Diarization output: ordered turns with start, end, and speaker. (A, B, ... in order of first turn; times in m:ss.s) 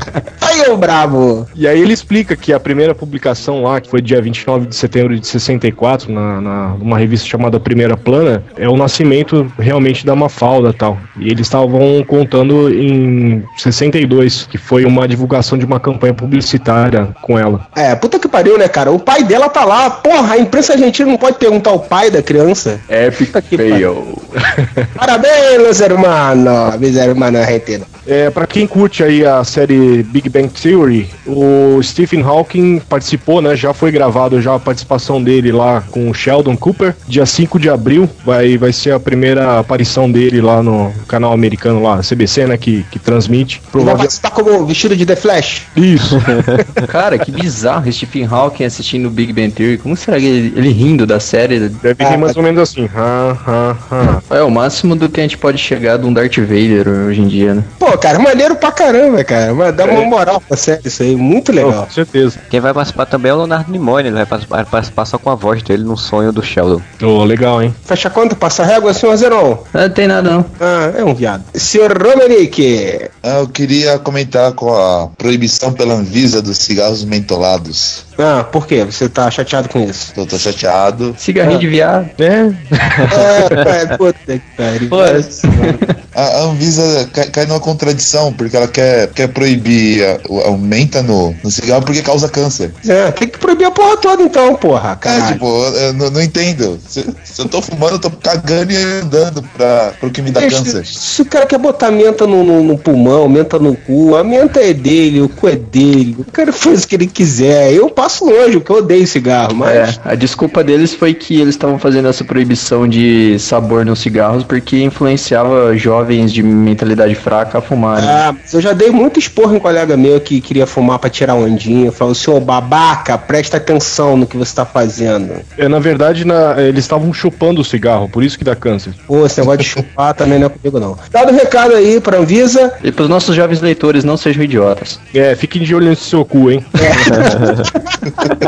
0:00.4-0:01.5 A
0:01.6-0:17.6 B
0:17.8-0:23.8 A
0:22.9-0:24.4 C
0:25.0-0:27.9 A
0:28.1-0:44.1 B
0:43.8-0:45.7 A
0:45.8-0:46.8 B
0:46.9-0:51.8 C
0:51.8-0:54.2 B
0:52.0-0:52.4 A
0:54.3-0:57.7 C
0:57.8-1:01.9 A
1:01.6-1:02.4 B
1:02.5-1:06.9 D
1:07.0-1:07.8 B
1:07.9-1:09.7 A
1:09.7-1:10.5 C
1:10.6-1:13.1 A
1:13.2-1:18.0 E
1:18.2-1:20.1 A
1:20.2-1:21.2 E
1:21.2-1:22.2 C
1:22.2-1:22.7 B
1:22.8-1:23.7 C
1:23.1-1:25.8 A
1:24.9-1:26.0 C
1:26.2-1:32.8 E
1:32.8-1:35.4 A
1:35.0-1:40.9 E
1:40.3-1:50.0 A
1:49.6-1:58.2 C
1:58.0-2:05.4 A
2:05.6-2:09.0 B
2:09.1-2:12.8 A
2:12.8-2:15.0 C
2:15.1-2:17.6 B
2:16.8-2:17.5 A
2:17.1-2:17.7 D